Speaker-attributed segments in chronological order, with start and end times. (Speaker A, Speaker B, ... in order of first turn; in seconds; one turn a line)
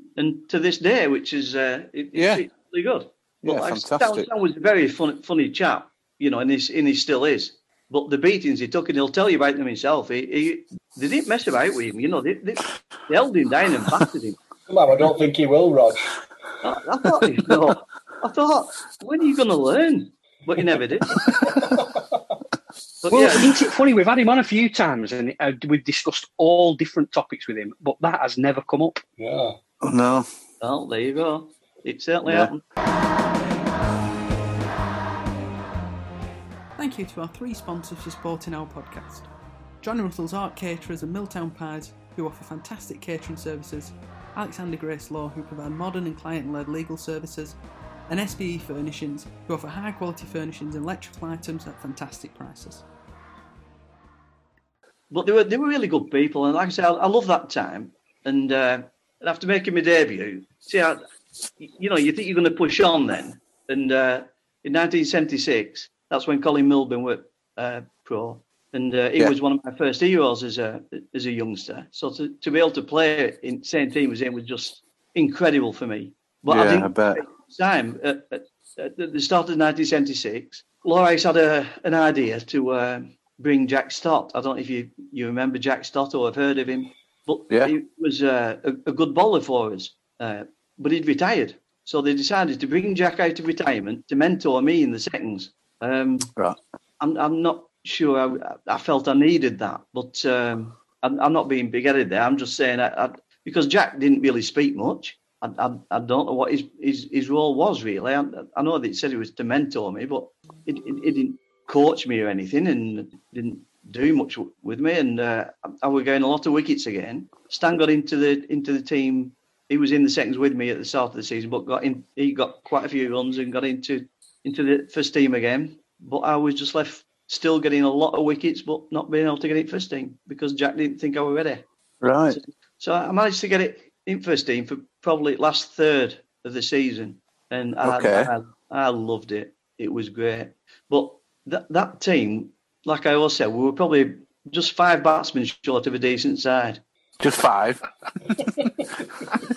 Speaker A: 0.2-14.4
Speaker B: 2.1-2.5
Speaker B: 3.5-4.3
Speaker C: 14.7-16.1
Speaker A: 16.6-21.2
Speaker B: 21.2-21.6
Speaker C: 21.6-22.0
Speaker A: 23.0-23.5
Speaker D: 23.1-29.0
Speaker C: 29.2-29.6
Speaker B: 29.8-30.2
Speaker A: 30.6-32.6
Speaker B: 32.2-32.5
Speaker E: 36.8-39.3
Speaker E: 39.8-52.9
Speaker A: 55.1-61.0
Speaker A: 61.6-96.3
Speaker B: 76.5-77.2
Speaker A: 97.0-131.7
Speaker B: 132.0-132.4
Speaker A: 132.3-146.8
Speaker B: 137.8-138.3
Speaker B: 147.2-149.4